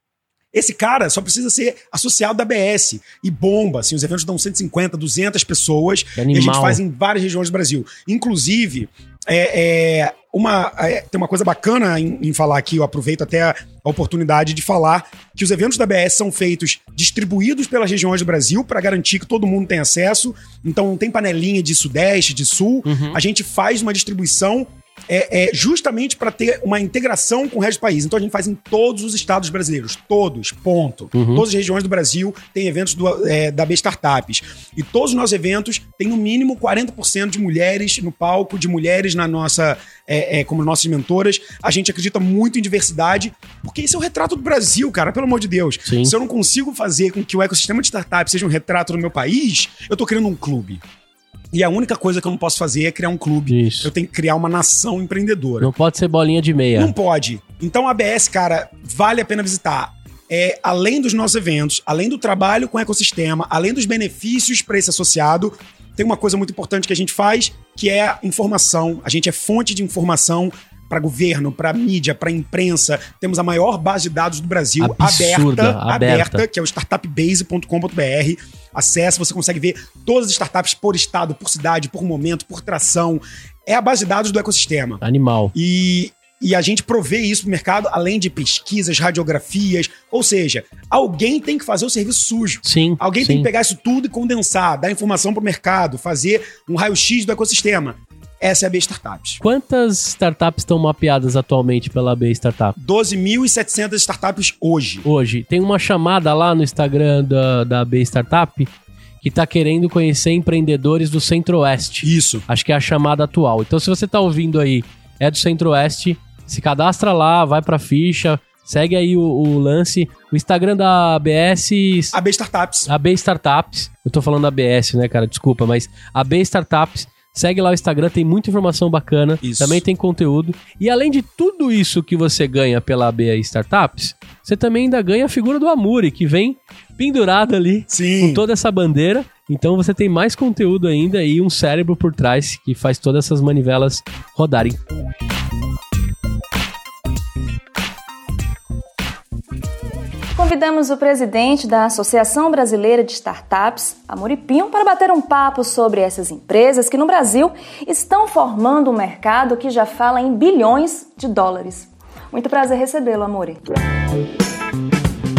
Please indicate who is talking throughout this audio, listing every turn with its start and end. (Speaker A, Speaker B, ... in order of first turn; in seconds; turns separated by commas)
Speaker A: 0.5-50.8, Speaker B: 6.2-6.8, Speaker B: 22.9-23.2, Speaker B: 31.1-31.4, Speaker B: 45.8-46.1, Speaker A: 51.5-55.7, Speaker B: 53.5-53.9, Speaker B: 55.6-56.9, Speaker A: 56.7-85.0, Speaker B: 74.8-76.4, Speaker B: 85.0-85.5, Speaker A: 85.5-99.4, Speaker B: 92.6-93.5, Speaker B: 99.4-102.8, Speaker A: 102.8-105.0, Speaker B: 105.0-108.7, Speaker B: 109.2-122.1, Speaker A: 112.0-112.4, Speaker A: 122.1-122.9, Speaker B: 122.9-144.8, Speaker A: 129.4-129.8, Speaker A: 137.9-138.4, Speaker C: 150.3-163.6